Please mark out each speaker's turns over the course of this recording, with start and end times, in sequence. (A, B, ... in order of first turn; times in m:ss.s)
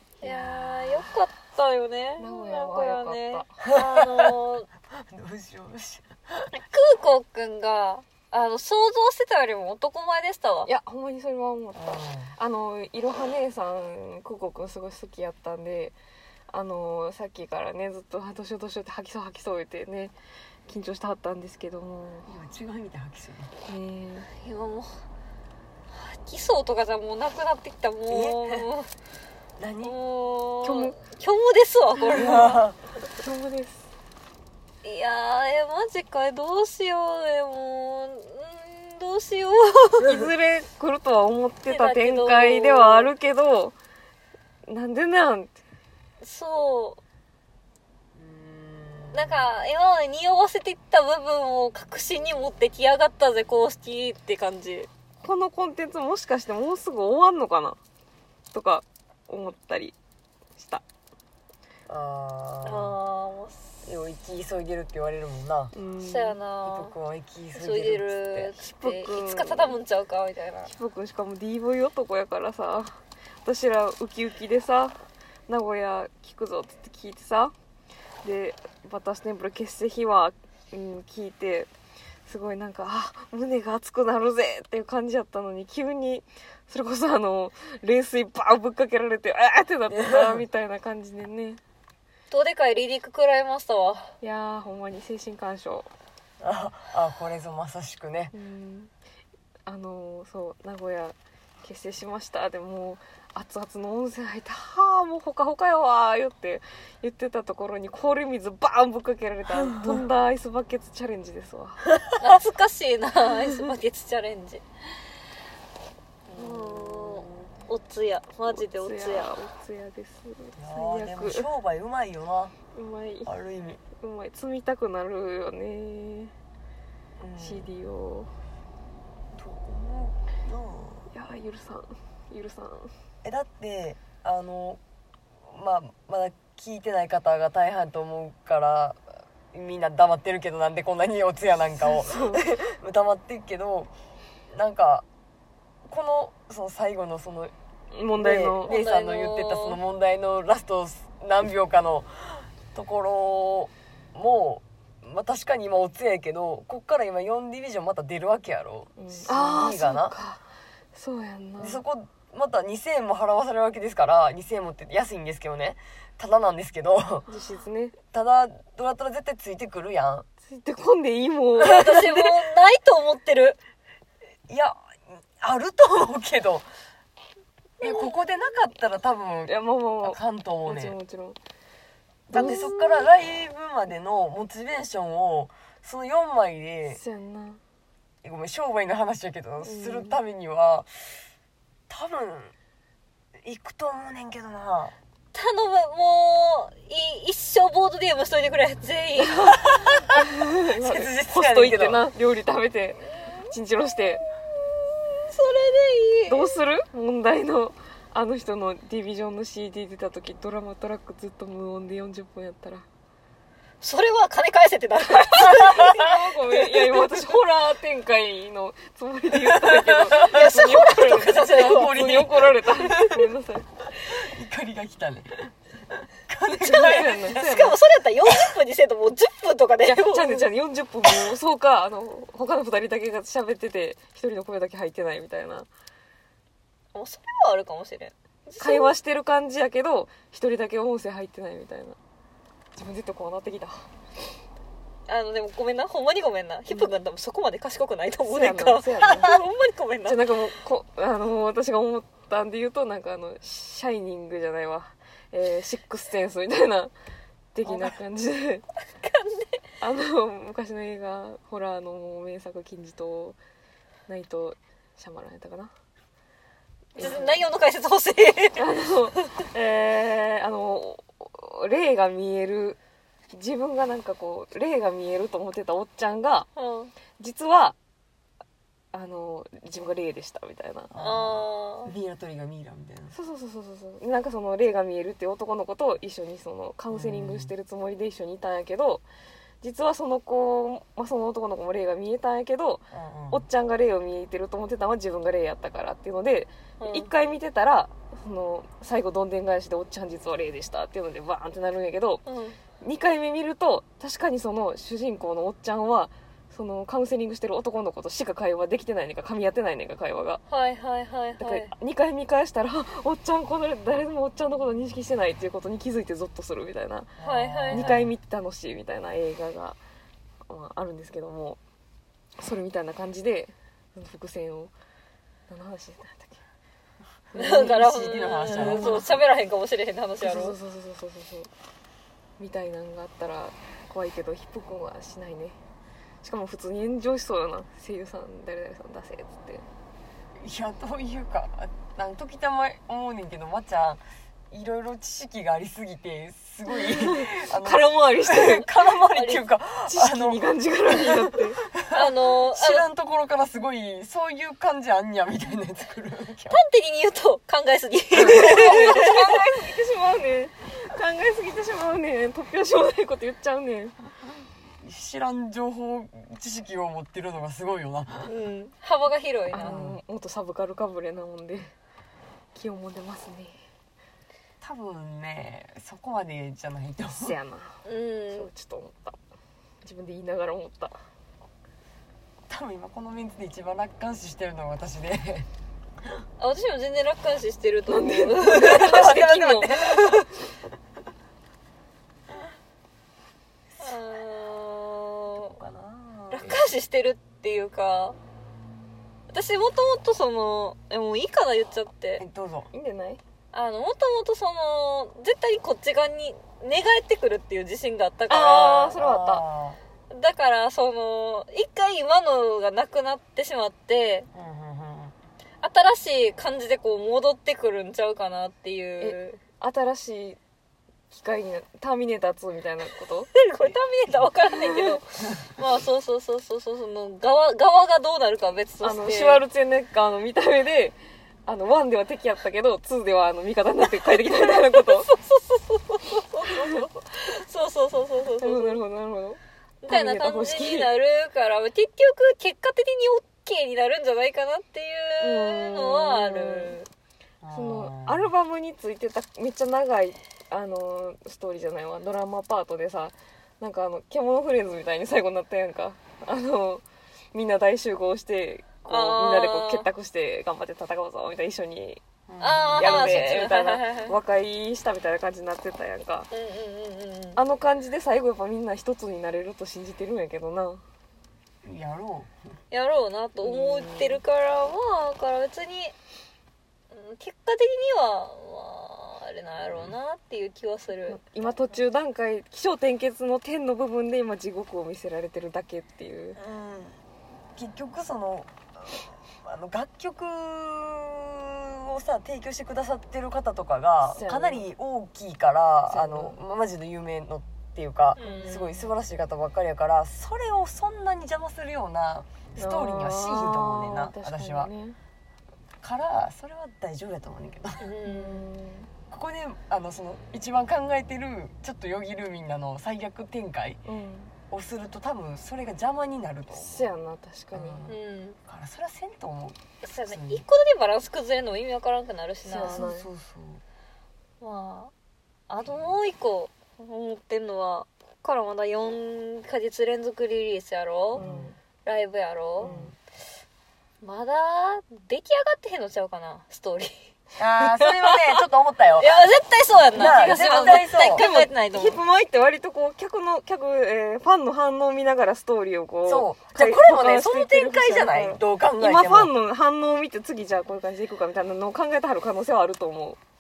0:00.2-0:01.1 A
0:00.2-0:04.7 B
0:02.2-0:03.5 A
0:03.6-0:04.4 C
0:05.0-0:06.5 C
0:06.6-0:10.7 B
0:10.7-0:11.8 A
0:11.8-0:12.3 C
0:12.4-0:16.0 A
0:16.5-0:20.1 A
0:20.7-0:22.3 A
0:22.3-0:23.5 C
0:23.7-0:24.3 A
0:24.4-0:25.0 B
0:25.9-0:28.9 B
0:28.1-0:28.7 C
0:29.6-0:29.9 C
0:29.8-0:32.4 B
0:30.6-0:31.0 A
0:32.0-0:32.6 A
0:32.1-0:32.8 C
0:33.2-0:33.9 A
0:34.8-0:40.2 B
0:40.0-0:43.8 A
0:41.7-0:43.1 B
0:44.7-0:45.6 A
0:46.2-0:47.0 B
0:48.2-0:49.5 C
0:49.1-0:54.9 B
0:55.2-0:57.8 A
0:58.5-1:00.0 A
1:00.6-1:00.8 A
1:01.9-1:03.0 C
1:02.6-1:03.8 B
1:03.8-1:05.7 C
1:05.7-1:06.4 A
1:06.0-1:07.0 B
1:06.6-1:08.5 C
1:07.6-1:10.7 B
1:08.6-1:09.8 A
1:10.7-1:15.0 A
1:15.5-1:17.5 A
1:18.2-1:21.7 A
1:22.3-1:31.6 A
1:29.9-1:30.4 C
1:32.3-1:34.1 B
1:34.2-1:35.9 A
1:36.4-1:38.3 C
1:38.3-1:38.9 A
1:39.7-1:51.9 A
1:49.6-1:50.0 C
1:51.9-1:52.4 C
1:52.2-1:54.6 B
1:56.3-1:59.3 B
1:56.3-1:57.5 C
1:58.5-2:01.5 A
2:00.6-2:02.6 C
2:02.7-2:03.3 A
2:03.3-2:03.8 C
2:03.9-2:06.3 A
2:07.2-2:07.7 C
2:07.4-2:08.3 A
2:09.3-2:11.1 C
2:11.1-2:12.9 A
2:13.2-2:14.8 C
2:15.5-2:23.9 C
2:21.8-2:22.6 A
2:24.5-2:25.1 C
2:25.9-2:27.5 C
2:27.9-2:28.8 A
2:28.2-2:40.2 C
2:28.7-2:29.8 B
2:39.0-2:40.4 A
2:40.9-2:41.8 A
2:41.6-2:47.3 C
2:47.3-2:48.0 A
2:48.1-2:50.3 C
2:50.5-2:52.0 A
2:51.6-2:53.6 B
2:51.7-2:52.4 C
2:54.5-2:56.7 C
2:57.8-3:01.0 C
2:59.5-3:01.4 A
3:02.3-3:07.0 C
3:02.3-3:03.1 B
3:02.3-3:02.7 A
3:06.9-3:07.6 A
3:08.2-3:10.9 C
3:09.6-3:10.2 A
3:11.9-3:12.5 C
3:13.4-3:14.9 C
3:15.3-3:19.7 B
3:19.5-3:22.1 C
3:20.2-3:24.3 A
3:23.2-3:23.5 B
3:24.8-3:26.6 B
3:26.3-3:32.9 A
3:33.8-3:36.1 B
3:35.4-3:36.0 C
3:35.6-3:43.7 A
3:39.3-3:40.6 C
3:40.1-3:42.2 B
3:41.3-3:43.3 C
3:43.9-3:47.5 C
3:46.5-3:47.8 A
3:46.5-3:50.4 B
3:49.9-3:55.7 A
3:56.9-3:58.9 B
3:58.6-4:02.0 A
4:02.8-4:03.9 A
4:05.1-4:10.4 B
4:08.3-4:09.4 A
4:10.1-4:16.9 A
4:17.5-4:18.6 A
4:19.0-4:19.6 B
4:19.8-4:23.4 A
4:24.1-4:25.7 A
4:27.0-4:27.4 A
4:27.0-4:29.2 B
4:28.6-4:32.8 A
4:33.3-4:36.5 A
4:36.6-4:36.9 B
4:37.2-4:37.8 A
4:38.9-4:40.9 A
4:40.9-4:43.1 C
4:41.0-4:41.9 B
4:43.1-4:49.0 A
4:46.9-4:47.5 C
4:49.6-5:02.2 A
4:52.9-4:53.4 C
4:56.8-4:57.1 B
5:02.3-5:02.6 B
5:02.8-5:10.4 A
5:10.5-5:11.7 B
5:11.4-5:17.2 A
5:17.2-5:18.1 C
5:17.2-5:18.0 B
5:17.7-5:19.8 A
5:20.5-5:21.6 A
5:22.4-5:24.7 A
5:25.5-5:26.4 A
5:27.3-5:29.1 C
5:27.4-5:27.7 A
5:27.4-5:30.6 B
5:28.5-5:29.1 A
5:30.2-5:31.5 A
5:32.4-5:35.6 A
5:36.2-5:39.6 A
5:40.4-5:50.4 C
5:46.7-5:48.9 A
5:49.1-5:49.4 B
5:49.9-5:51.6 A
5:51.7-5:56.6 C
5:51.9-5:52.9 B
5:56.5-5:59.3 B
5:58.2-6:04.0 A
6:04.8-6:08.3 C
6:08.3-6:09.8 B
6:09.5-6:11.7 A
6:09.6-6:10.0 C
6:12.6-6:13.6 A
6:14.6-6:17.4 C
6:17.1-6:19.2 A
6:17.8-6:18.5 B
6:19.8-6:21.0 A
6:22.5-6:25.5 C
6:26.4-6:29.2 B
6:27.9-6:29.7 A
6:28.5-6:30.3 C
6:29.9-6:30.3 B
6:33.7-6:34.0 C
6:33.8-6:35.6 B
6:35.5-6:36.7 C
6:36.3-6:38.2 B
6:39.3-6:42.2 B
6:42.2-6:42.7 C
6:42.7-6:43.2 A
6:43.5-6:49.0 B
6:48.3-6:49.4 A
6:49.0-6:49.8 C
6:50.1-6:54.3 B
6:54.3-6:55.2 C
6:55.6-6:59.4 B
6:59.0-7:00.4 A
7:01.1-7:03.3 A
7:03.3-7:09.4 B
7:08.8-7:15.1 A
7:14.0-7:18.8 B
7:16.4-7:16.8 A
7:18.4-7:20.9 A
7:19.8-7:26.9 B
7:25.2-7:26.8 A
7:27.4-7:28.3 C
7:27.5-7:42.0 A
7:38.9-7:39.9 B
7:42.3-7:43.2 C
7:42.4-7:44.2 B
7:42.8-7:46.3 A
7:46.3-7:47.4 B
7:47.4-7:50.8 A
7:51.6-7:52.6 C
7:52.7-7:56.0 B
7:53.4-7:54.2 A
7:56.9-8:01.2 B
8:01.1-8:06.4 A
8:06.4-8:07.0 C
8:07.6-8:24.7 C
8:14.1-8:14.6 A
8:15.9-8:16.4 A
8:18.2-8:18.8 B
8:18.2-8:18.8 A
8:22.6-8:25.0 A
8:25.8-8:27.9 C
8:27.8-8:28.4 B
8:28.0-8:28.9 A
8:29.1-8:33.8 C
8:33.8-8:34.3 A
8:34.5-8:36.9 C
8:36.5-8:37.9 A
8:37.5-8:40.4 C
8:37.9-8:38.4 B
8:39.8-8:42.9 B
8:42.4-8:43.1 A
8:42.6-8:43.6 C
8:44.4-8:44.9 B
8:45.5-8:51.2 B
8:45.7-8:45.9 C
8:51.1-8:51.5 C
8:51.2-8:51.6 A
8:51.8-8:52.7 B
8:52.6-8:52.9 C
8:52.6-8:52.9 A
8:54.0-8:57.0 B
8:57.4-8:59.3 C
8:57.6-8:58.4 B
8:59.0-9:02.0 B
8:59.9-9:01.2 C
8:59.9-9:13.2 A
9:06.1-9:09.3 C